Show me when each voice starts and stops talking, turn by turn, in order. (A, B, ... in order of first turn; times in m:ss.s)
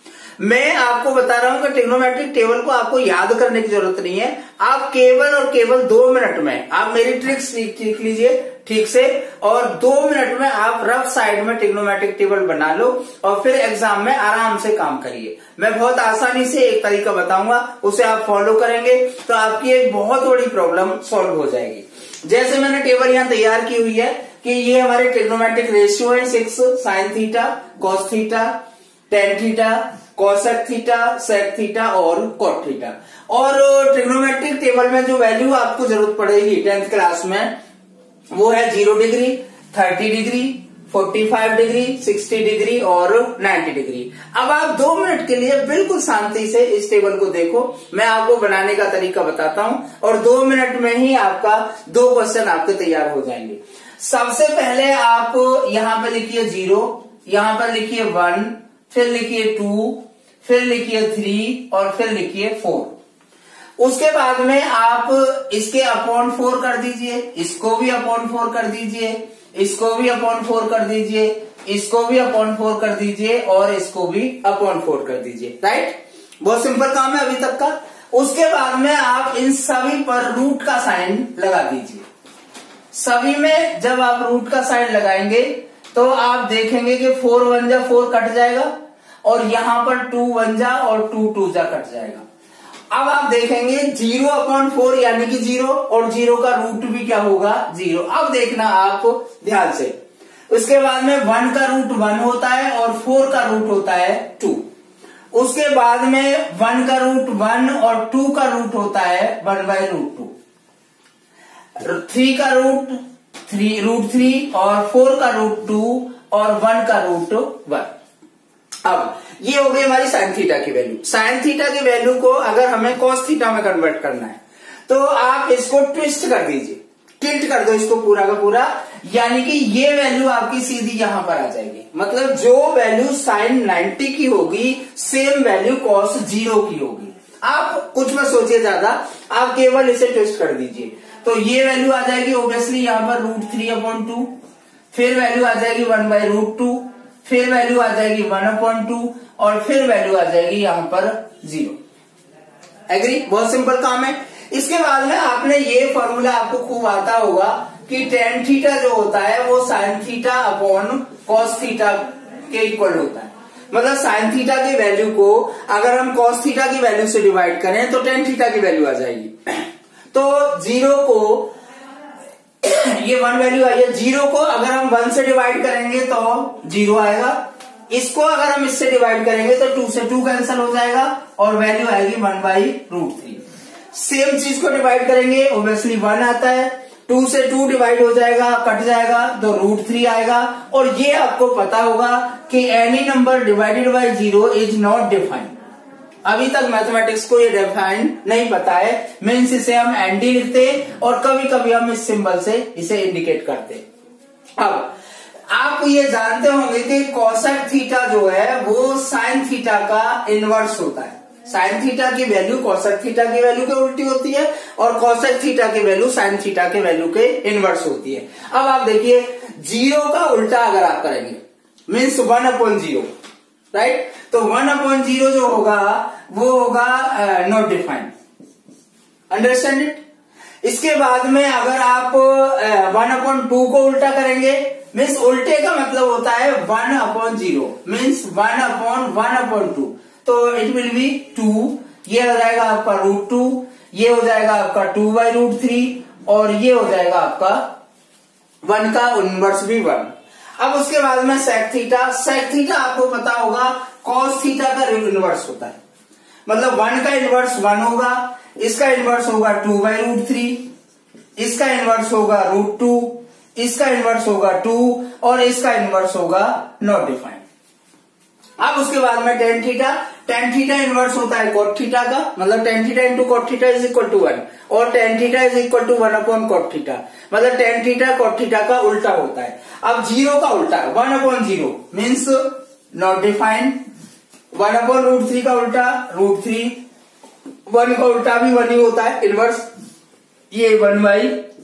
0:00.4-0:28.6 A
0:29.1-0:37.5 A
0:38.3-1:02.9 A
1:03.8-1:22.0 A
1:22.9-1:28.7 A
1:29.2-1:32.2 A
1:32.9-1:39.9 A
1:40.5-1:44.6 A
1:45.3-1:50.3 A
1:51.8-1:57.9 A
1:58.8-2:24.3 A
2:24.9-2:31.8 A
2:32.9-2:51.5 A
2:52.6-2:57.4 A
2:57.9-3:03.4 A
3:03.9-3:15.5 A
3:16.2-3:23.8 A
3:24.6-3:24.9 A
3:25.5-3:43.1 A
3:43.7-3:48.1 A
3:49.3-3:50.0 A
3:50.6-4:07.7 A
4:08.6-4:15.8 A
4:16.4-4:20.7 A
4:21.4-4:27.4 A
4:28.6-4:43.8 A
4:44.5-4:46.8 A
4:47.7-4:49.7 A
4:50.5-4:51.4 A